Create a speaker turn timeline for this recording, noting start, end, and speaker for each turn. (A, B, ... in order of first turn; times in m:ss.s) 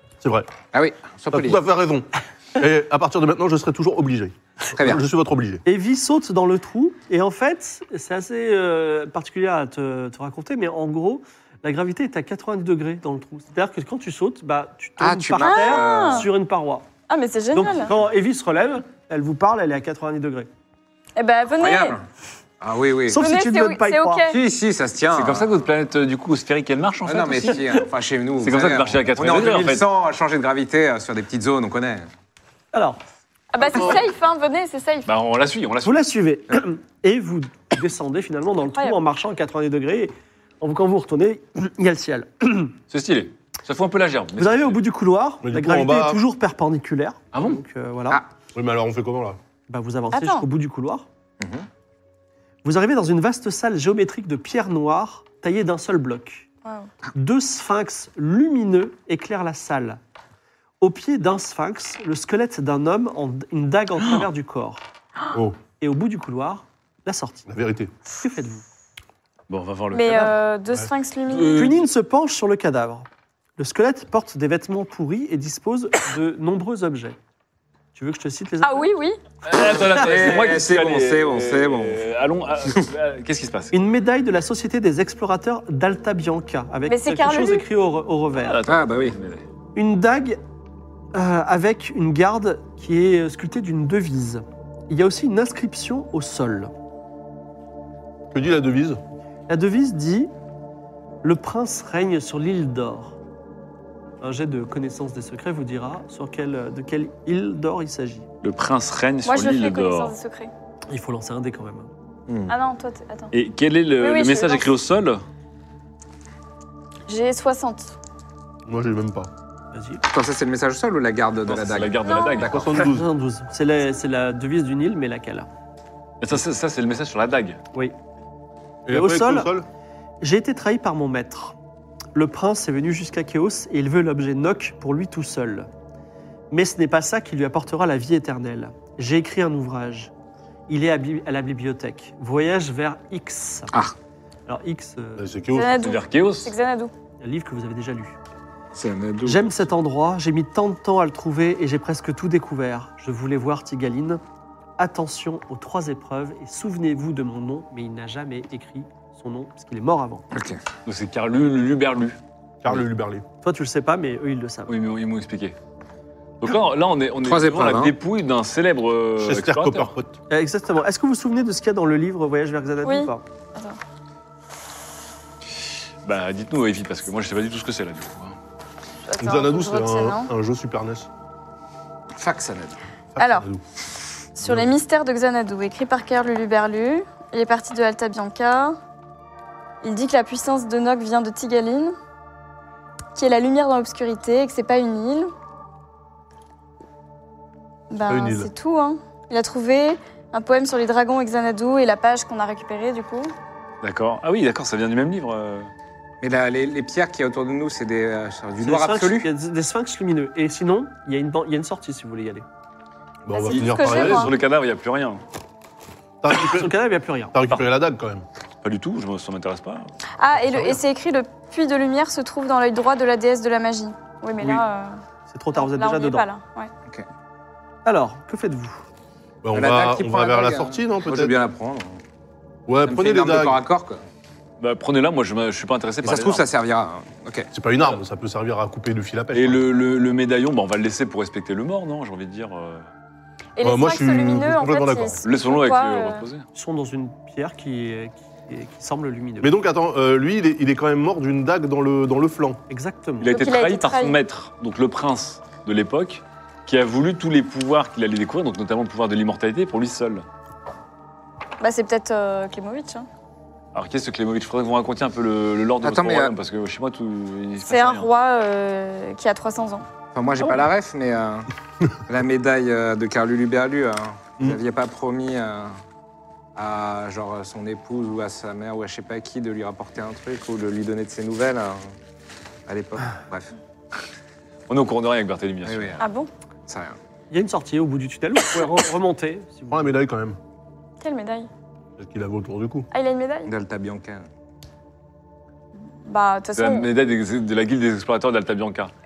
0:00.2-0:00.5 A
0:00.7-0:01.6 B
0:01.3-0:05.6 A
0:04.7-0:05.0 B
0:05.6-0:16.9 C
0:15.0-0:16.3 B
0:15.4-0:16.3 D
0:17.1-0:17.9 D
0:17.5-0:20.5 C
0:21.2-0:22.0 D
0:21.6-0:22.0 B
0:22.6-0:23.2 B
0:23.1-0:24.2 C
0:23.2-0:24.4 D
0:24.2-0:25.5 B
0:25.1-0:27.9 E
0:27.0-0:32.1 B
0:28.4-0:29.8 E
0:32.7-0:33.0 C
0:33.5-0:35.1 D
0:35.0-0:36.0 E
0:35.8-0:42.7 C
0:38.7-0:39.0 D
0:42.9-0:44.8 E
0:44.4-0:48.2 C
0:45.4-0:46.2 A
0:47.3-0:47.6 E
0:48.5-0:49.4 A
0:49.7-0:51.0 C
0:50.1-0:50.4 D
0:51.4-0:51.7 B
0:52.6-0:56.5 C
0:56.6-0:56.9 D
0:57.1-1:00.0 C
1:00.8-1:04.8 C
1:05.3-1:05.6 A
1:05.8-1:07.5 C
1:07.5-1:07.9 A
1:08.1-1:08.6 C
1:09.5-1:10.3 E
1:09.9-1:11.7 D
1:11.3-1:11.9 E
1:11.5-1:17.2 C
1:17.9-1:18.9 C
1:18.6-1:19.2 D
1:19.4-1:23.8 E
1:19.6-1:20.0 C
1:19.6-1:22.0 B
1:23.7-1:28.6 C
1:26.9-1:27.6 D
1:28.4-1:29.4 E
1:28.6-1:29.2 B
1:29.7-1:30.4 C
1:31.1-1:36.7 C
1:38.3-1:39.0 A
1:39.5-1:40.3 C
1:41.2-1:43.2 C
1:44.2-1:48.3 C
1:48.4-1:50.1 E
1:49.2-1:50.5 D
1:50.9-1:51.9 C
1:52.3-1:52.5 B
1:52.5-1:53.3 D
1:53.3-1:55.2 E
1:54.0-1:54.7 D
1:57.1-1:57.9 D
1:58.6-1:59.3 A
1:59.7-2:00.0 C
2:00.0-2:02.9 B
2:01.4-2:02.7 E
2:02.0-2:02.4 D
2:02.5-2:03.0 A
2:02.8-2:05.5 C
2:06.2-2:07.6 E
2:08.8-2:09.7 A
2:08.9-2:09.5 C
2:10.2-2:11.5 C
2:12.1-2:15.7 C
2:16.5-2:20.1 C
2:20.7-2:23.7 C
2:24.5-2:25.3 C
2:25.2-2:25.7 A
2:25.5-2:26.9 D
2:25.8-2:26.5 E
2:27.2-2:28.2 C
2:28.7-2:29.4 B
2:29.2-2:34.2 C
2:34.8-2:40.2 C
2:40.3-2:40.6 B
2:40.8-2:42.8 E
2:42.6-2:43.2 A
2:43.4-2:44.7 C
2:44.7-2:45.6 E
2:46.4-2:49.9 E
2:47.2-2:47.9 B
2:49.2-2:50.2 A
2:50.3-2:53.2 C
2:52.8-2:53.8 D
2:55.6-2:58.4 E
2:59.0-3:00.3 D
2:59.2-3:01.1 A
3:02.2-3:02.8 B
3:03.1-3:03.6 A
3:03.2-3:03.5 D
3:04.4-3:08.8 D
3:04.4-3:04.7 A
3:09.8-3:11.9 D
3:13.1-3:15.3 D
3:17.9-3:23.3 D
3:18.1-3:18.5 A
3:23.8-3:25.7 E
3:26.2-3:29.3 B
3:28.6-3:32.4 C
3:33.2-3:34.3 A
3:33.3-3:34.3 D
3:33.6-3:35.2 E
3:36.2-3:36.7 A
3:36.5-3:37.3 C
3:37.3-3:38.2 A
3:38.6-3:39.9 E
3:40.2-3:45.0 D
3:40.4-3:40.8 A
3:44.4-3:44.6 C
3:45.3-3:46.2 C
3:45.5-3:46.7 D
3:47.8-3:48.8 C
3:49.4-3:51.3 A
3:49.5-3:52.0 B
3:52.7-3:53.6 A
3:52.8-3:54.0 B
3:54.6-3:56.4 E
3:56.0-3:57.5 B
3:57.5-3:59.7 A
3:59.3-4:02.8 E
4:03.6-4:06.2 D
4:03.6-4:05.2 A
4:05.2-4:06.4 E
4:06.5-4:09.5 C
4:09.4-4:12.6 A
4:12.7-4:13.3 C
4:13.2-4:20.2 E
4:13.3-4:14.2 D
4:21.6-4:23.1 D
4:23.7-4:28.1 E
4:25.8-4:26.3 B
4:27.6-4:29.8 D
4:30.1-4:31.5 B
4:32.1-4:35.8 B
4:36.6-4:41.8 B
4:42.7-4:43.5 B
4:44.7-4:46.0 E
4:45.6-4:46.0 B
4:46.0-4:46.3 D
4:46.7-4:47.0 B
4:47.3-4:49.9 C
4:49.7-4:50.4 A
4:51.0-4:51.5 D
4:52.0-4:52.9 A
4:52.9-4:53.5 D
4:53.4-4:54.3 B
4:56.0-4:56.9 D
4:56.6-4:58.9 E